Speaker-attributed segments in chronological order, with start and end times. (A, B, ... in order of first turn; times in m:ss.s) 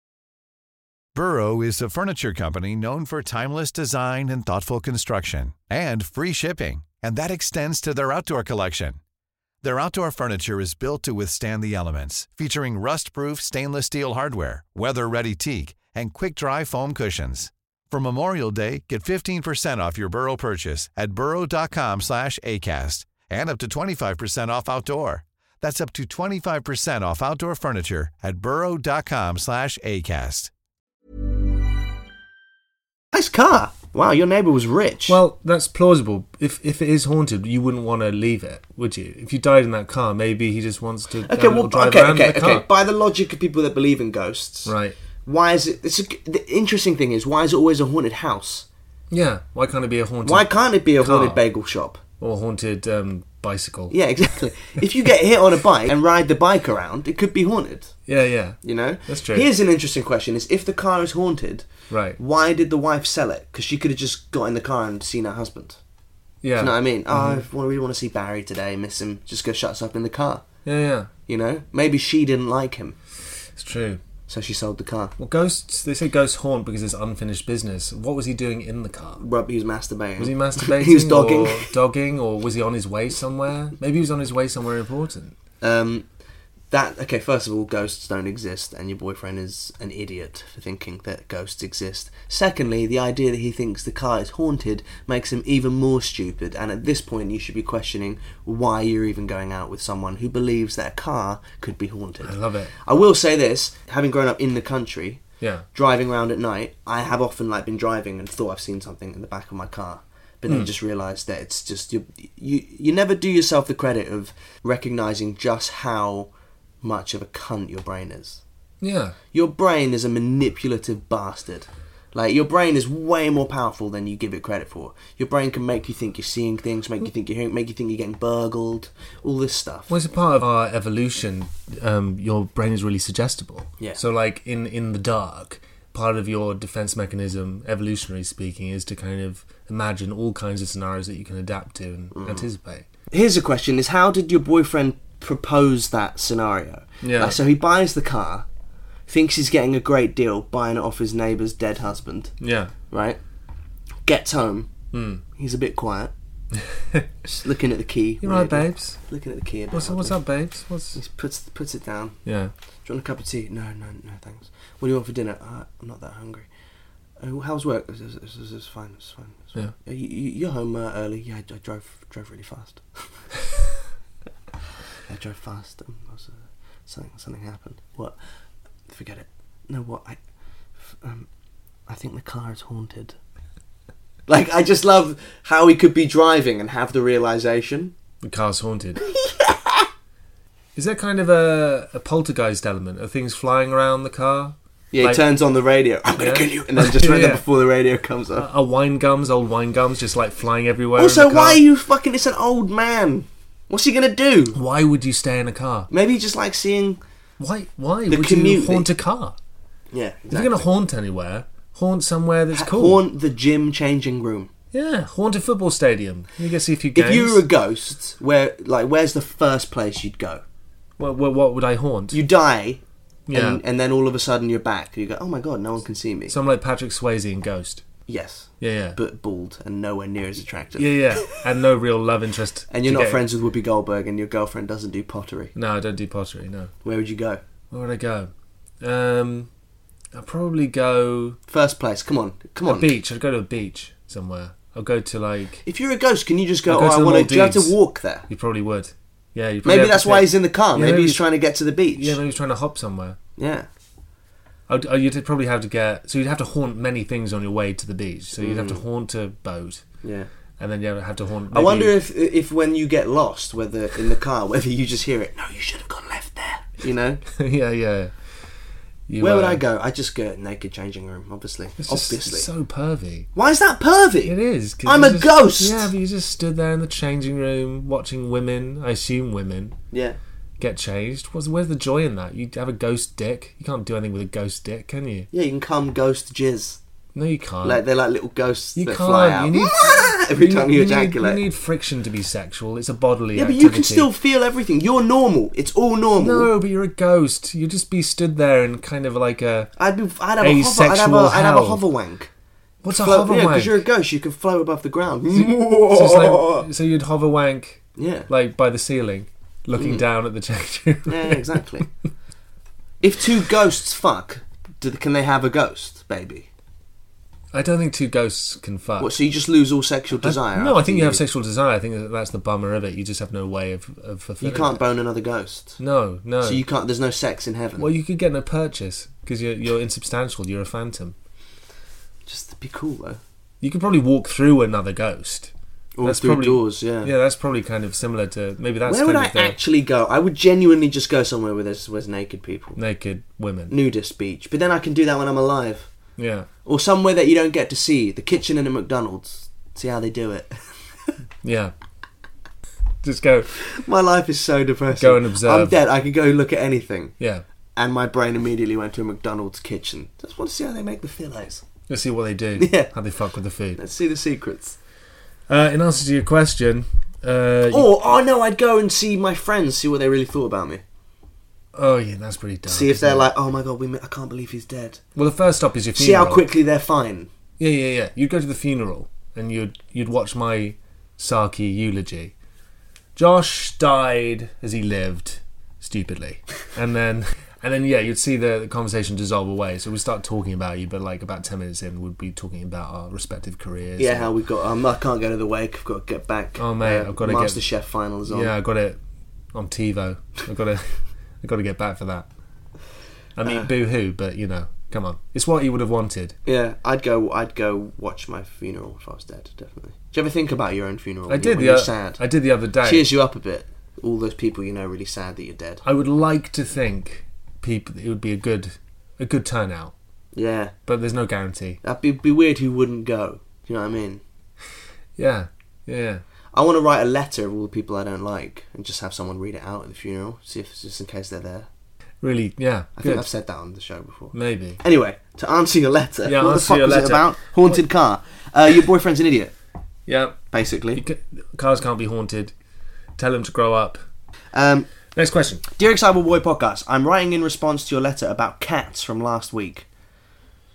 0:01.1-0:09.0 A
0:09.6-0:30.5 A
0:33.1-0:35.2 B
0:35.1-0:42.6 C
0:41.3-0:44.7 B
0:44.6-0:45.0 C
0:45.2-0:48.6 B
0:49.1-0:51.4 C
0:50.2-0:52.0 B
0:52.2-0:53.9 C
0:53.9-0:57.9 B
0:58.1-0:59.5 C
0:58.6-1:05.8 B
1:01.9-1:02.2 C
1:06.4-1:07.4 C
1:06.6-1:10.4 B
1:10.6-1:11.1 C
1:11.3-1:13.0 B
1:13.6-1:14.0 C
1:14.3-1:15.1 B
1:15.2-1:19.2 C
1:19.2-1:21.7 B
1:20.2-1:25.3 C
1:25.6-1:26.0 B
1:26.7-1:45.2 B
1:42.2-1:42.7 C
1:45.4-1:45.6 C
1:45.7-1:56.3 B
1:56.8-1:58.4 B
1:58.8-1:59.2 C
1:59.3-2:09.9 B
2:09.9-2:22.8 C
2:22.1-2:22.4 B
2:23.1-2:28.4 B
2:27.0-2:27.4 C
2:29.1-2:32.3 B
2:32.4-2:32.7 C
2:32.9-2:33.2 B
2:34.0-2:34.7 B
2:34.9-2:35.2 C
2:35.4-2:36.1 B
2:36.6-2:37.0 C
2:37.2-2:40.2 B
2:38.2-2:39.0 C
2:39.7-2:41.0 C
2:40.9-2:42.2 B
2:42.2-2:42.5 C
2:42.8-2:46.5 B
2:47.2-2:53.0 B
2:55.1-2:58.2 B
2:58.9-3:00.2 B
3:00.9-3:01.3 B
3:01.9-3:03.2 B
3:04.3-3:07.9 B
3:08.2-3:09.0 C
3:09.2-3:09.8 B
3:10.7-3:15.2 C
3:14.9-3:18.4 B
3:16.2-3:17.4 C
3:18.4-3:21.6 C
3:21.0-3:24.6 B
3:24.5-3:25.9 C
3:25.9-3:27.0 B
3:27.4-3:29.4 C
3:28.1-3:28.9 B
3:29.9-3:30.6 B
3:30.3-3:33.0 C
3:32.5-3:34.5 B
3:34.7-3:37.4 C
3:36.9-3:40.4 B
3:41.0-3:42.2 C
3:42.1-3:46.3 B
3:43.3-3:43.6 C
3:46.3-3:47.8 C
3:48.1-3:51.0 B
3:48.6-3:49.0 C
3:50.8-3:53.2 C
3:52.7-3:55.5 B
3:55.5-3:56.7 C
3:56.8-3:57.4 B
3:57.7-3:59.5 C
4:00.1-4:01.4 C
4:01.5-4:02.9 B
4:02.6-4:05.6 C
4:05.6-4:08.3 B
4:06.7-4:07.8 C
4:08.3-4:11.3 C
4:09.6-4:12.2 B
4:11.9-4:13.2 C
4:13.4-4:13.7 B
4:14.7-4:19.8 C
4:18.4-4:18.8 B
4:20.0-4:20.3 B
4:20.6-4:22.0 C
4:21.5-4:27.2 B
4:27.3-4:28.1 C
4:29.1-4:29.6 C
4:29.2-4:32.5 B
4:31.8-4:33.3 C
4:33.3-4:35.9 B
4:34.2-4:39.8 C
4:39.9-4:40.2 B
4:40.6-4:45.3 C
4:45.3-4:46.8 B
4:47.1-4:47.8 C
4:47.6-4:51.4 B
4:48.8-4:54.1 C
4:53.3-4:56.5 B
4:56.2-4:59.7 C
4:59.8-5:02.3 B
5:00.4-5:01.8 C
5:02.8-5:03.8 C
5:03.0-5:06.7 B
5:05.3-5:11.6 C
5:08.0-5:08.3 B
5:09.8-5:10.0 B
5:11.0-5:11.9 B
5:13.0-5:16.5 B
5:17.5-5:19.1 C
5:19.0-5:21.2 B
5:20.2-5:24.8 C
5:24.4-5:25.8 B
5:25.8-5:26.6 C
5:26.4-5:27.9 B
5:27.8-5:31.1 C
5:32.2-5:33.2 B
5:33.6-5:35.5 C
5:36.0-5:37.1 B
5:36.0-5:39.6 C
5:38.8-5:42.8 B
5:42.8-5:43.7 C
5:43.7-5:45.9 B
5:46.2-5:46.5 C
5:46.6-5:50.6 B
5:51.4-5:51.7 C
5:53.0-5:53.5 C
5:53.7-5:57.1 B
5:55.0-5:55.8 C
5:57.8-6:01.6 B
6:01.9-6:03.8 C
6:02.6-6:02.9 B
6:03.8-6:04.8 B
6:05.5-6:07.9 C
6:07.7-6:10.8 B
6:11.7-6:13.3 C
6:12.7-6:15.0 B
6:15.2-6:16.4 C
6:15.9-6:17.3 B
6:17.6-6:22.3 C
6:23.2-6:34.3 C
6:34.0-6:38.5 B
6:36.6-6:37.6 C
6:38.3-6:39.0 C
6:39.5-6:42.3 C
6:43.4-6:46.4 C
6:46.4-6:52.2 B
6:51.3-6:53.1 C
6:52.8-6:55.8 B
6:55.8-6:59.9 C
7:00.3-7:00.7 B
7:00.8-7:01.8 C
7:01.8-7:04.2 B
7:05.2-7:06.2 C
7:06.5-7:11.7 B
7:12.2-7:13.3 C
7:13.0-7:19.5 B
7:14.3-7:14.8 C
7:16.2-7:17.8 C
7:20.0-7:20.4 C
7:20.5-7:21.0 B
7:20.9-7:22.5 C
7:23.2-7:24.0 C
7:24.5-7:24.9 B
7:25.1-7:25.6 C
7:25.8-7:29.8 B